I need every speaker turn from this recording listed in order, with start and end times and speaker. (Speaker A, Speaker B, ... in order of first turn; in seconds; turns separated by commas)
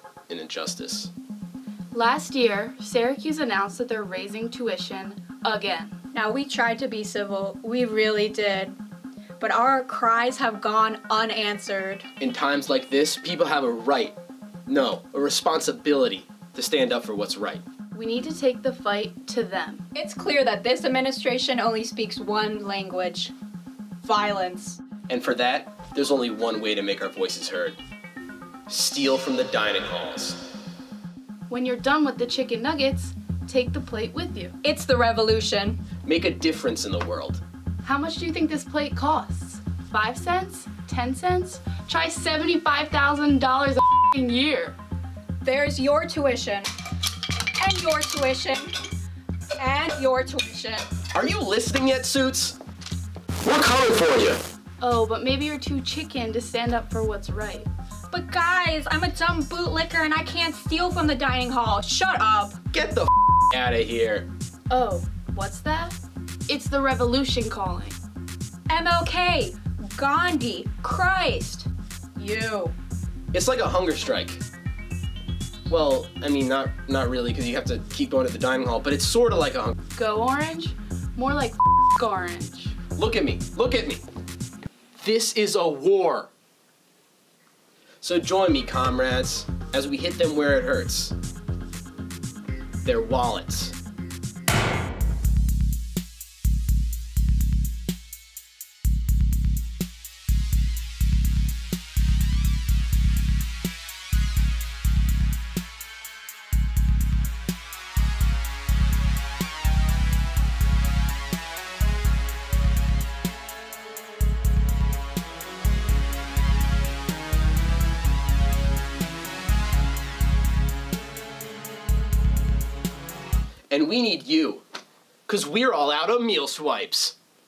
Speaker A: 0.3-1.1, Speaker B: 1.9-6.0, Speaker C: 6.1-8.8, Speaker C: 9.4-12.1, Speaker A: 12.2-17.6, Speaker B: 17.9-19.9, Speaker C: 19.9-23.3, Speaker C: 24.0-24.8, Speaker A: 25.1-27.8, Speaker A: 28.7-30.4, Speaker B: 31.5-34.5, Speaker C: 34.6-35.8, Speaker A: 36.0-37.4, Speaker B: 37.8-44.8, Speaker C: 45.4-46.7, Speaker C: 47.6-48.7, Speaker C: 49.6-50.9, Speaker A: 51.1-52.6, Speaker A: 53.4-54.4, Speaker B: 54.8-57.7, Speaker C: 58.1-62.6, Speaker A: 62.7-64.3, Speaker B: 64.7-66.0, Speaker B: 66.5-68.0, Speaker C: 68.7-72.7, Speaker A: 73.3-74.4, Speaker A: 75.7-79.8, Speaker B: 79.9-82.8, Speaker A: 83.0-84.0, Speaker A: 85.0-86.3, Speaker A: 88.0-91.1, Speaker A: 92.8-93.8, Speaker A: 123.7-124.6, Speaker A: 125.3-127.1